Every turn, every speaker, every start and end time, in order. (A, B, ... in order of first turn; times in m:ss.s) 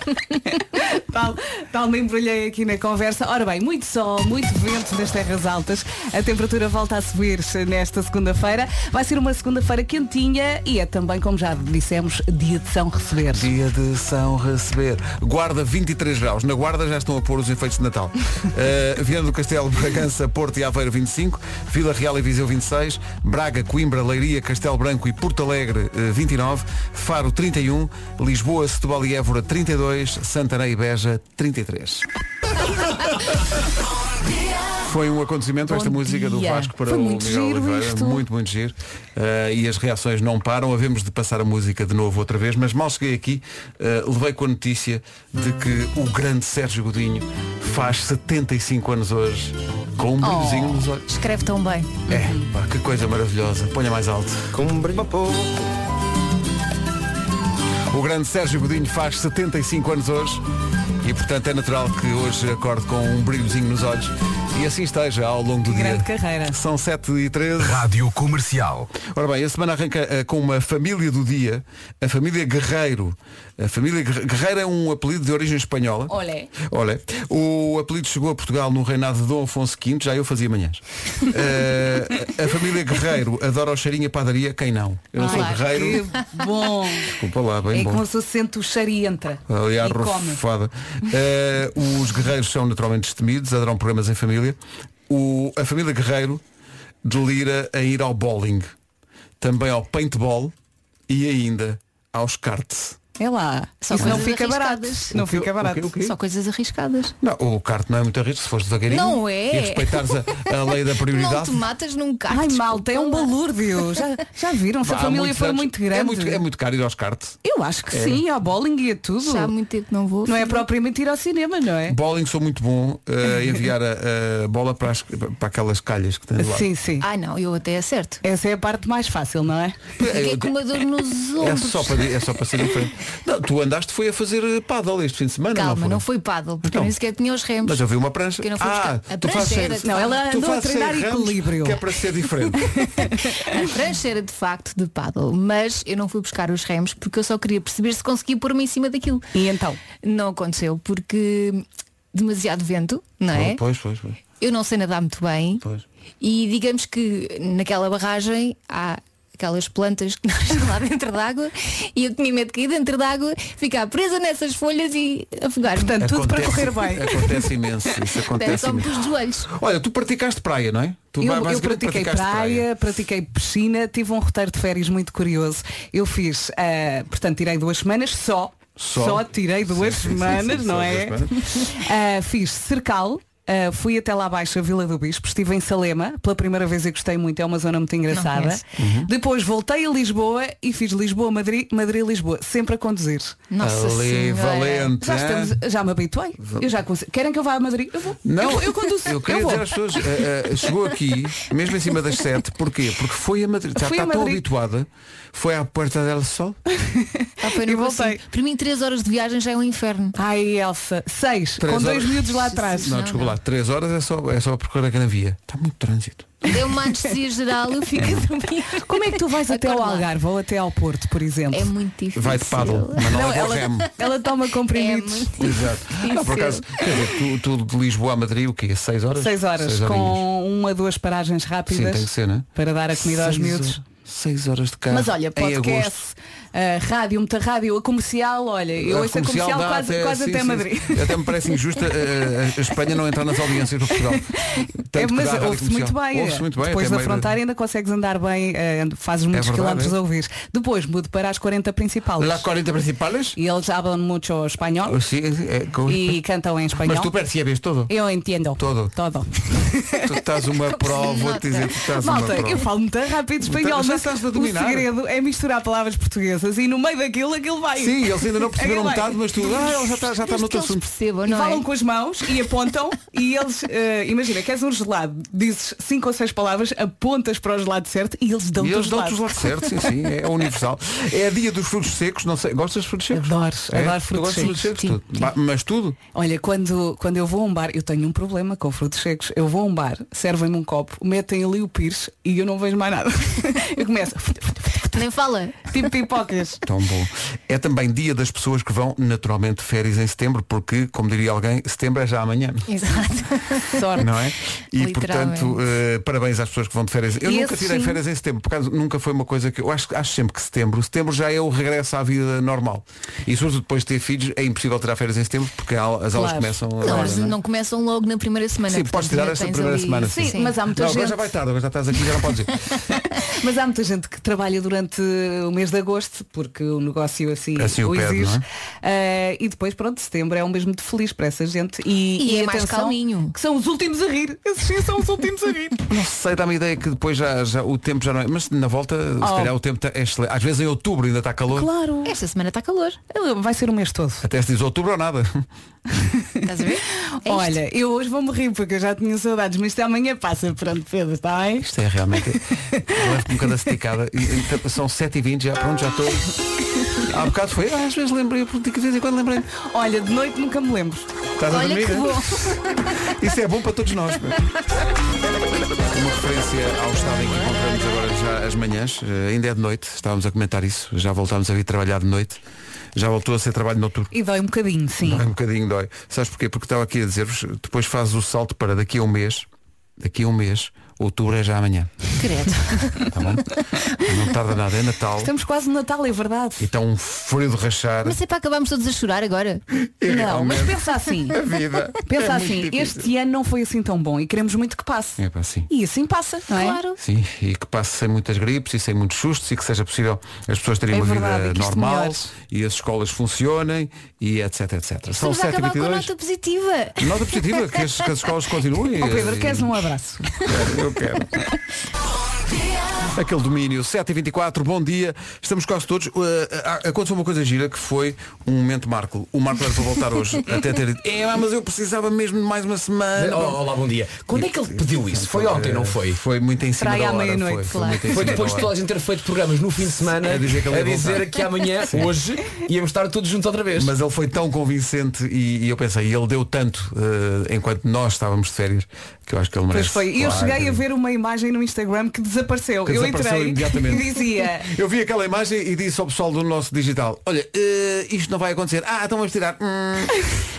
0:00.4-0:13.5 A
0:13.3-0:32.0 B
0:34.8-0:51.0 B
0:35.7-0:38.2 A
0:50.2-0:50.9 A
0:51.1-0:52.0 C
0:52.1-0:52.5 A
0:52.1-0:54.5 B
0:54.6-0:55.6 D
0:57.9-1:00.4 B
1:01.0-1:07.9 B
1:05.6-1:06.6 A
1:07.6-1:08.9 D
1:09.0-1:26.0 B
1:16.1-1:16.5 A
1:25.2-1:27.1 A
1:25.2-1:26.4 C
1:27.1-1:28.0 B
1:27.7-1:30.4 A
1:29.5-1:34.6 B
1:35.1-1:36.4 B
1:37.0-1:38.7 B
1:39.4-1:40.5 B
1:41.1-1:43.0 B
1:43.2-1:45.9 A
1:43.8-1:45.2 C
1:44.0-1:44.3 B
1:45.1-1:46.2 B
1:46.0-1:47.2 C
1:47.2-1:51.6 B
1:48.9-1:53.3 C
1:52.3-1:56.4 A
1:54.8-1:57.4 B
1:57.4-1:59.5 A
1:57.9-1:58.2 B
1:59.2-2:00.6 C
2:00.2-2:02.0 A
2:01.9-2:06.7 B
2:06.4-2:07.1 A
2:07.0-2:08.2 C
2:08.2-2:09.8 A
2:10.0-2:10.5 B
2:10.0-2:12.1 C
2:11.4-2:16.0 B
2:15.5-2:17.9 C
2:16.6-2:17.0 B
2:17.6-2:22.8 B
2:18.4-2:20.2 C
2:19.8-2:21.8 A
2:22.6-2:23.6 A
2:23.5-2:29.3 C
2:29.3-2:29.8 A
2:30.0-2:33.6 C
2:33.3-2:34.2 B
2:34.4-2:35.6 C
2:36.2-2:46.0 C
2:45.8-2:47.5 A
2:46.0-2:52.7 B
2:48.4-2:49.5 C
2:51.2-3:13.4 A
2:58.8-3:01.4 B
3:08.1-3:08.6 C
3:08.8-3:09.1 B
3:13.5-3:14.9 C
3:13.6-3:15.5 B
3:15.0-3:20.2 A
3:16.4-3:16.7 B
3:18.2-3:26.6 B
3:23.8-3:24.4 A
3:26.8-3:28.2 A
3:27.4-3:30.2 C
3:30.2-3:33.0 A
3:31.6-3:36.4 B
3:32.5-3:33.4 C
3:36.4-3:40.1 C
3:36.5-3:37.0 A
3:38.8-3:41.7 A
3:41.5-3:44.1 C
3:42.2-3:43.9 B
3:43.1-3:45.3 A
3:44.7-3:47.1 C
3:45.4-3:50.2 B
3:49.2-3:53.8 A
3:51.7-3:55.9 B
3:54.9-4:01.2 A
3:58.8-4:04.2 B
4:04.1-4:12.5 A
4:04.9-4:07.3 B
4:09.3-4:10.0 B
4:12.2-4:13.4 B
4:13.4-4:15.0 A
4:14.9-4:16.2 B
4:15.9-4:17.1 A
4:16.8-4:17.9 B
4:17.9-4:20.0 A
4:18.6-4:18.9 B
4:20.0-4:22.7 B
4:20.7-4:21.7 C
4:22.0-4:29.3 A
4:23.4-4:24.9 B
4:27.8-4:30.8 B
4:30.2-4:31.6 C
4:31.3-4:39.3 A
4:38.6-4:46.0 B
4:43.1-4:44.5 A
4:44.4-4:45.2 C
4:46.1-4:55.0 A
4:55.0-4:55.7 C
4:55.7-4:56.6 A
4:56.7-5:02.7 B
5:02.7-5:04.1 C
5:04.0-5:17.4 B
5:04.8-5:05.6 C
5:07.2-5:08.0 A
5:16.1-5:17.2 A
5:16.8-5:20.6 C
5:18.7-5:22.6 B
5:20.1-5:21.2 A
5:23.2-5:35.8 A
5:27.6-5:28.4 B
5:32.2-5:33.4 C
5:35.9-5:41.7 B
5:39.2-5:39.5 A
5:41.5-5:42.2 A
5:42.0-5:43.0 C
5:43.1-5:44.3 A
5:44.2-5:45.5 B
5:46.4-5:47.6 C
5:47.2-5:51.7 A
5:51.6-5:56.2 B
5:52.3-5:52.9 A
5:57.0-5:59.5 B
5:59.6-6:01.1 A
6:01.4-6:04.5 B
6:01.5-6:02.9 C
6:05.9-6:12.4 B
6:13.0-6:14.1 B
6:14.1-6:15.2 A
6:15.0-6:19.5 B
6:20.0-6:21.9 B
6:22.2-6:23.1 C
6:23.1-6:23.5 B
6:24.0-6:25.3 B
6:25.2-6:26.7 A
6:26.6-6:28.2 B
6:28.0-6:29.6 C
6:30.0-6:30.8 B
6:30.1-6:31.4 A
6:31.3-6:33.1 B
6:32.1-6:35.2 A
6:35.2-6:35.7 B
6:35.7-6:36.8 A
6:36.5-6:37.0 C
6:37.0-6:46.1 B
6:40.9-6:42.2 A
6:45.1-6:47.7 C
6:47.0-6:49.8 B
6:49.0-6:50.5 A
6:50.4-6:51.3 B
6:53.1-7:03.6 B
7:03.2-7:06.2 D
7:04.3-7:08.7 B
7:06.8-7:08.2 A
7:07.7-7:08.2 C
7:08.1-7:13.9 D
7:10.2-7:12.1 B
7:13.8-7:20.7 B
7:19.7-7:24.7 A
7:20.2-7:20.8 D
7:22.9-7:24.1 B
7:24.7-7:30.2 B